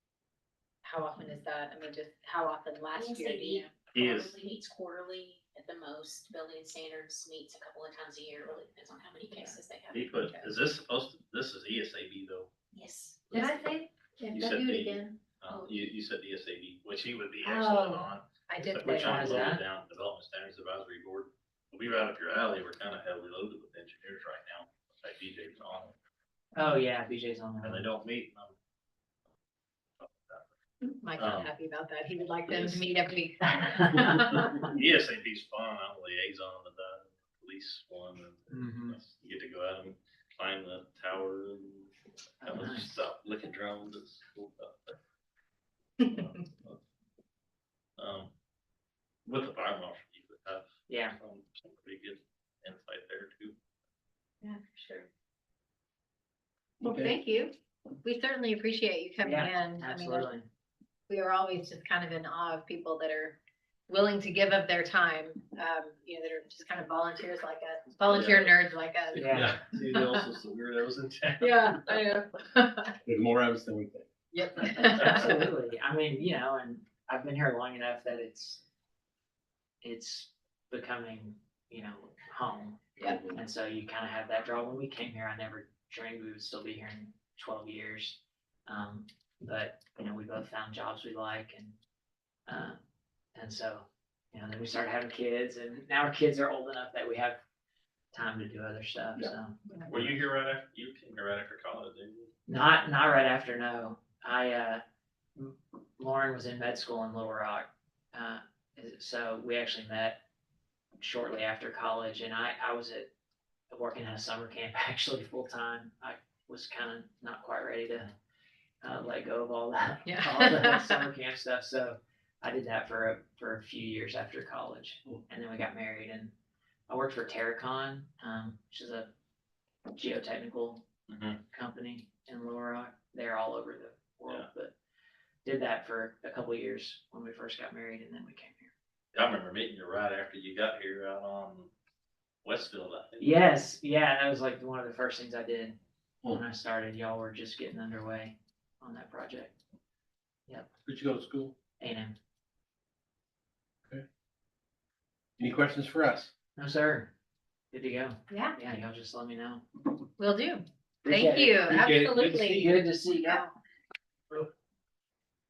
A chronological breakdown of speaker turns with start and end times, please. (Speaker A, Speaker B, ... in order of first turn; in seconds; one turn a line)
Speaker A: 0.8-3.7
Speaker B: 2.9-10.2
Speaker C: 3.9-4.4
Speaker D: 9.3-9.6
Speaker C: 9.9-12.5
Speaker A: 10.2-10.5
Speaker B: 12.7-13.4
Speaker C: 13.3-13.6
Speaker A: 13.3-15.1
Speaker C: 14.3-25.9
Speaker B: 15.5-15.8
Speaker A: 17.4-19.5
Speaker D: 18.8-19.6
Speaker D: 26.5-27.8
Speaker C: 27.6-28.6
Speaker C: 30.0-30.5
Speaker A: 30.8-34.6
Speaker C: 31.1-31.5
Speaker C: 32.5-32.8
Speaker D: 33.9-34.6
Speaker C: 34.6-45.0
Speaker D: 38.5-39.0
Speaker D: 42.4-42.9
Speaker C: 46.0-46.8
Speaker C: 48.0-48.3
Speaker C: 49.2-53.5
Speaker D: 50.9-51.2
Speaker A: 54.4-55.1
Speaker E: 56.8-57.1
Speaker A: 56.8-60.3
Speaker D: 59.2-60.5
Speaker A: 61.1-70.2
Speaker C: 68.0-72.0
Speaker D: 69.1-69.5
Speaker E: 69.3-69.6
Speaker A: 71.4-72.9
Speaker E: 73.0-74.1
Speaker A: 74.3-75.4
Speaker D: 74.7-78.6
Speaker D: 79.8-91.8
Speaker E: 83.0-83.4
Speaker D: 92.5-92.8
Speaker D: 93.3-97.4
Speaker D: 98.1-100.2
Speaker C: 99.9-102.3
Speaker D: 102.5-104.8
Speaker D: 105.3-110.2
Speaker D: 111.0-113.1
Speaker D: 113.7-118.1
Speaker D: 118.8-126.3
Speaker A: 120.0-121.0
Speaker D: 126.9-129.1
Speaker D: 129.9-130.8
Speaker C: 131.1-131.4
Speaker D: 131.5-134.8
Speaker D: 135.4-138.7
Speaker C: 139.1-141.7
Speaker C: 142.4-143.4
Speaker D: 143.2-145.8
Speaker D: 146.3-149.6
Speaker E: 150.8-151.5
Speaker D: 151.8-152.2
Speaker E: 155.4-156.3
Speaker D: 156.6-157.1
Speaker D: 157.7-159.6
Speaker A: 158.3-158.6
Speaker A: 160.2-163.5
Speaker E: 161.0-163.4